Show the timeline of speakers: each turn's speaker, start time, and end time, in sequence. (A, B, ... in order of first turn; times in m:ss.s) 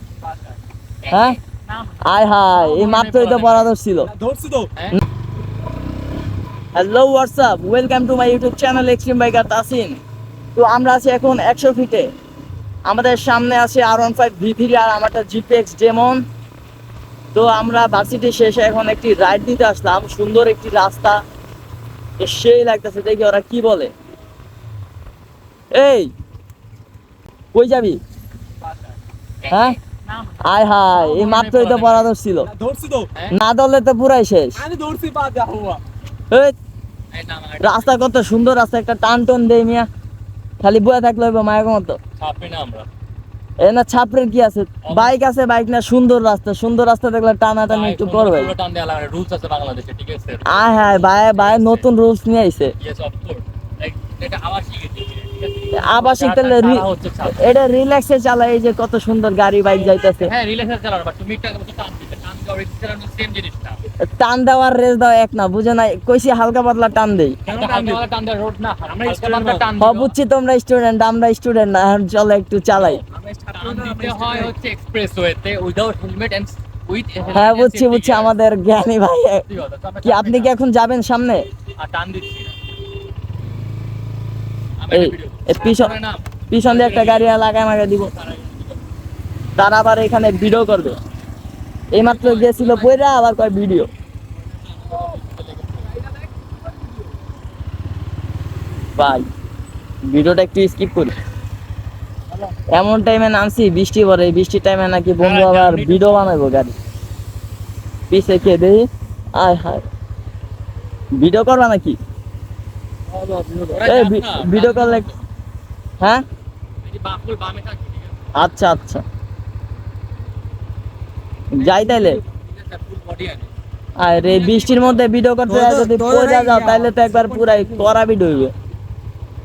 0:01.0-0:03.7 A
0:01.1-0:01.4 B
0:02.0-0:04.1 B
0:04.0-0:04.7 C
0:06.7-0:10.0 B
0:10.5-0:12.1 B
0:12.9-0:16.2 B
0:17.3-0:21.2 B
0:22.2-0:23.9 B
0:25.7-0:26.1 B
0:27.5-0:28.0 B
0:29.4-0:32.1 A
0:29.5-0:29.8 B
0:30.4-0:32.5 B
0:32.4-0:33.1 C
0:33.3-0:34.6 B
0:34.6-0:35.8 C
0:37.1-0:38.0 A
0:37.6-0:39.9 B
0:40.6-0:42.0 B
0:42.2-0:42.9 A
0:43.6-0:48.5 B
0:44.8-0:45.1 A
0:47.7-0:51.8 A
0:50.5-0:52.7 B
0:52.8-0:57.4 A
0:55.7-1:00.3 B
0:59.7-1:03.8 A
1:04.0-1:07.4 B
1:07.5-1:10.1 A
1:07.5-1:08.0 C
1:09.1-1:09.6 C
1:09.8-1:13.0 B
1:13.2-1:14.5 C
1:13.5-1:18.3 A
1:17.3-1:19.5 B
1:19.5-1:20.5 A
1:20.0-1:21.5 B
1:21.8-1:22.5 A
1:24.8-1:27.4 A
1:24.9-1:25.9 B
1:26.5-1:28.1 B
1:28.0-1:28.8 A
1:29.6-1:31.0 B
1:31.9-1:33.9 B
1:32.0-1:32.9 A
1:34.5-1:36.0 A
1:39.0-1:39.3 B
1:40.1-1:41.1 B
1:42.7-1:46.8 B
1:45.2-1:46.3 A
1:48.1-1:49.9 B
1:51.2-1:52.0 B
1:53.1-1:55.2 A
1:53.8-1:55.1 B
1:56.8-1:58.4 A
1:58.3-1:59.0 B
2:01.5-2:02.2 B
2:01.6-2:03.5 A
2:04.0-2:08.5 B
2:04.2-2:05.0 A
2:05.5-2:08.0 C